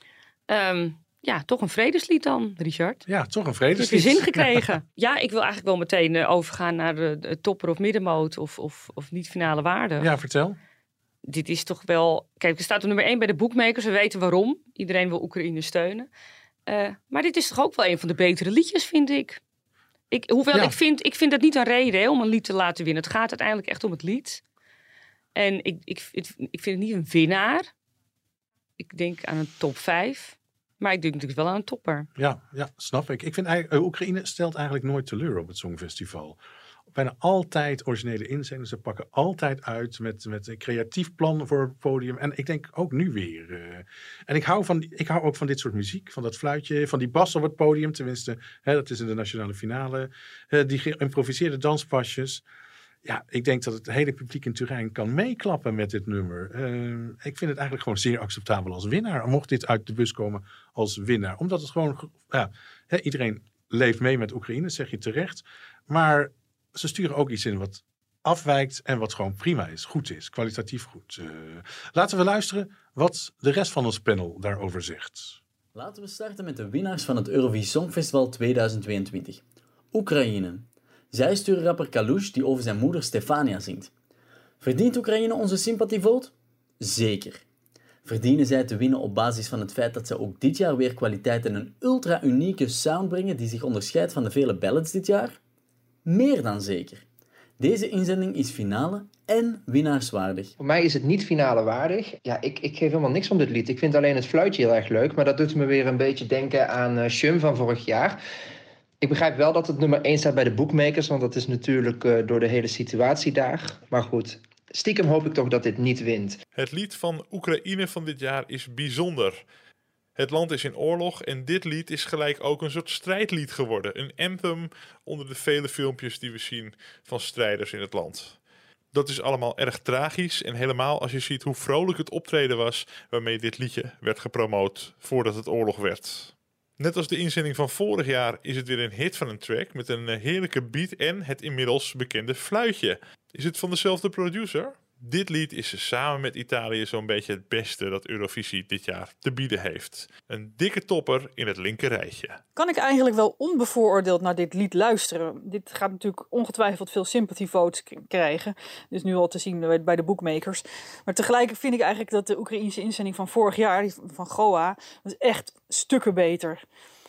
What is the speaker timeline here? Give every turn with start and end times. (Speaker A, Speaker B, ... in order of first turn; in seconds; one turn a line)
Speaker A: 0.5-3.0
Speaker B: 3.1-4.7
Speaker A: 3.8-10.1
Speaker B: 10.0-10.6
Speaker A: 11.3-16.1
Speaker A: 16.7-19.4
Speaker A: 20.1-24.4
Speaker A: 25.4-27.7
Speaker A: 28.8-32.1
Speaker B: 32.2-36.4
Speaker B: 36.9-52.4
Speaker B: 53.0-75.4
Speaker C: 75.7-83.9
Speaker C: 84.6-87.4
Speaker C: 88.0-95.4
Speaker C: 96.0-97.0
Speaker C: 97.6-100.5
Speaker D: 100.6-108.2
Speaker D: 109.0-116.4
Speaker E: 116.6-119.4
Speaker E: 120.2-128.4
Speaker E: 128.9-152.4
Speaker F: 152.6-166.6